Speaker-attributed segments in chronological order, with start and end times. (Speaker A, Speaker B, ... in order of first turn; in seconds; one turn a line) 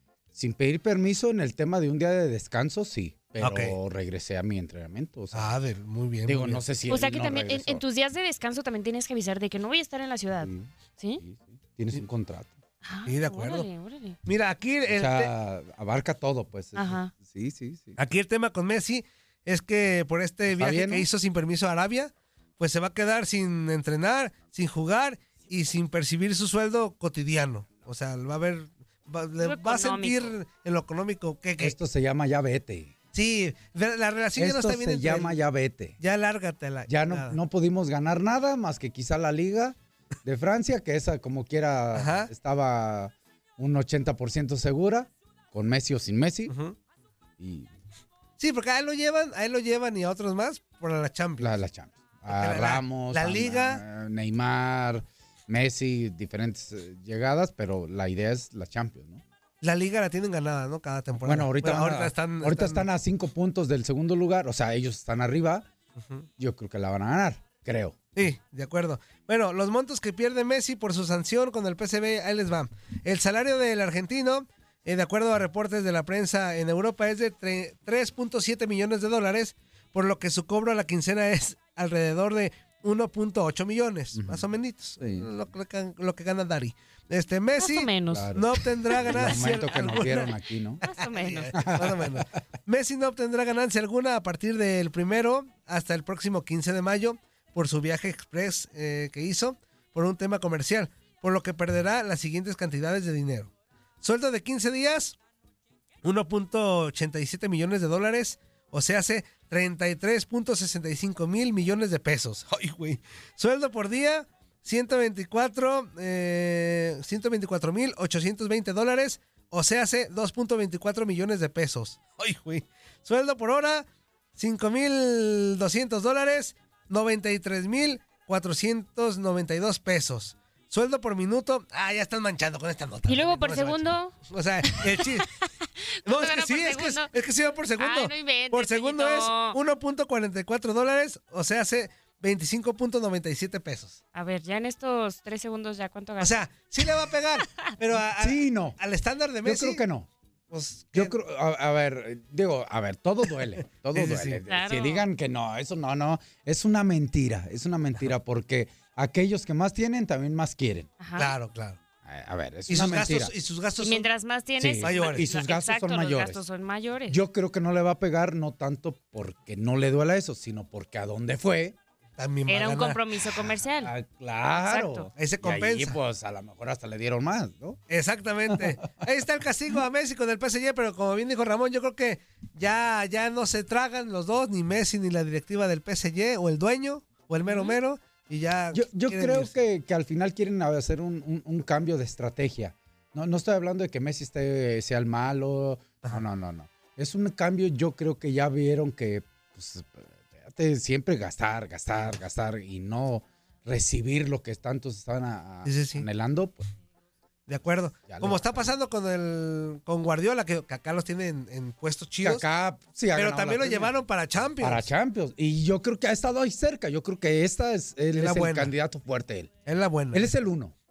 Speaker A: 0.3-5.5
Speaker B: 3.4-3.8
Speaker B: 5.3-6.6
Speaker A: 6.2-7.8
Speaker C: 6.9-11.2
Speaker A: 10.4-12.6
Speaker C: 12.8-14.2
Speaker B: 13.1-13.7
Speaker B: 14.2-15.3
Speaker A: 14.9-18.0
Speaker C: 16.8-17.1
Speaker B: 18.0-31.8
Speaker A: 20.5-21.1
Speaker C: 29.4-30.3
Speaker A: 31.6-32.9
Speaker B: 33.1-35.4
Speaker A: 34.4-36.0
Speaker B: 36.0-37.4
Speaker A: 36.9-46.5
Speaker B: 42.0-42.3
Speaker B: 46.5-46.8
Speaker A: 47.4-47.7
Speaker B: 48.4-51.5
Speaker A: 51.4-59.2
Speaker B: 52.3-53.8
Speaker B: 59.6-62.9
Speaker A: 61.2-65.7
Speaker A: 66.4-68.0
Speaker B: 68.2-90.3
Speaker A: 84.1-84.5
Speaker A: 85.0-85.3
Speaker C: 87.6-88.4
Speaker A: 88.1-90.8
Speaker C: 88.9-90.3
Speaker C: 90.8-91.7
Speaker B: 90.9-105.2
Speaker A: 91.5-92.2
Speaker B: 106.0-135.3
Speaker C: 133.1-135.3
Speaker C: 136.0-137.1
Speaker B: 136.1-144.0
Speaker C: 137.8-139.6
Speaker C: 144.1-146.4
Speaker B: 146.2-149.8
Speaker A: 148.2-148.8
Speaker A: 149.4-150.1
Speaker B: 150.5-151.1
Speaker A: 150.9-160.9
Speaker B: 153.9-154.4
Speaker C: 154.4-155.0
Speaker C: 161.0-161.3
Speaker B: 161.2-161.8
Speaker A: 162.0-163.3
Speaker B: 162.7-164.1
Speaker C: 163.8-167.2
Speaker A: 164.6-166.4
Speaker B: 164.8-165.3
Speaker A: 167.1-171.8
Speaker B: 172.2-173.0
Speaker C: 172.5-173.9
Speaker A: 173.5-177.8
Speaker C: 174.6-175.1
Speaker B: 175.2-176.0
Speaker B: 177.9-189.5
Speaker C: 187.5-187.8
Speaker A: 188.7-206.7
Speaker B: 205.6-206.1
Speaker B: 207.5-212.4
Speaker A: 208.1-208.7
Speaker A: 212.2-213.9
Speaker B: 213.1-214.9
Speaker A: 214.6-219.5
Speaker B: 218.1-218.7
Speaker B: 219.7-220.3
Speaker A: 220.1-220.7